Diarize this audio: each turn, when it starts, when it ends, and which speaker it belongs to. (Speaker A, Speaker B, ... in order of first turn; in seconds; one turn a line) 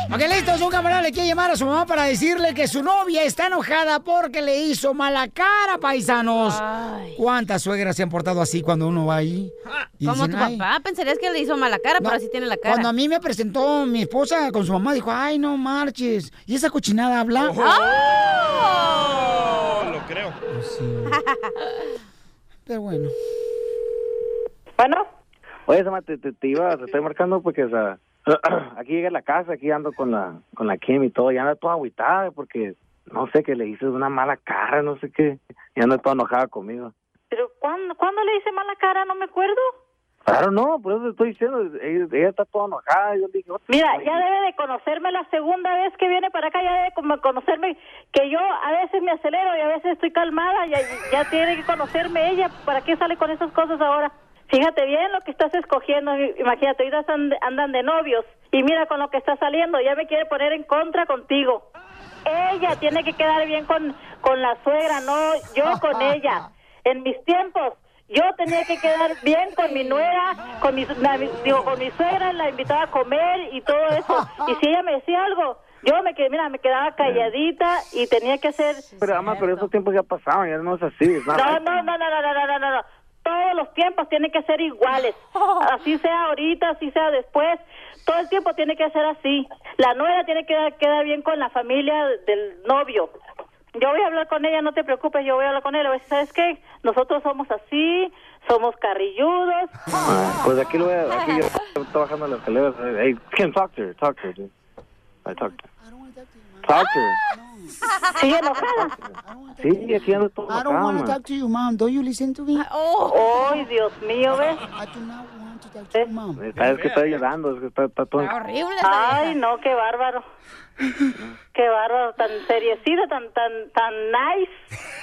Speaker A: 0.1-6.6
Speaker B: 6.5-7.2
Speaker A: 7.2-10.6
Speaker B: 10.0-12.9
Speaker A: 12.0-17.6
Speaker C: 17.4-20.4
Speaker B: 17.6-19.7
Speaker A: 20.5-21.2
Speaker B: 21.2-21.5
Speaker A: 22.7-23.1
Speaker D: 24.8-25.1
Speaker E: 25.7-36.9
Speaker D: 37.3-39.7
Speaker E: 40.2-44.2
Speaker D: 43.7-61.7
Speaker D: 62.2-78.8
Speaker B: 69.7-70.1
Speaker B: 78.8-79.7
Speaker E: 79.0-81.8
Speaker D: 81.3-93.1
Speaker B: 85.3-85.6
Speaker D: 93.8-99.7
Speaker E: 99.9-104.5
Speaker E: 105.2-105.6
Speaker A: 105.3-107.7
Speaker E: 106.6-107.2
Speaker D: 108.2-108.9
Speaker A: 109.2-112.7
Speaker E: 109.6-111.2
Speaker B: 112.5-113.6
Speaker D: 113.1-114.6
Speaker A: 114.8-116.4
Speaker E: 116.4-118.3
Speaker C: 116.6-117.2
Speaker B: 118.2-119.4
Speaker D: 118.8-120.2
Speaker D: 121.5-124.5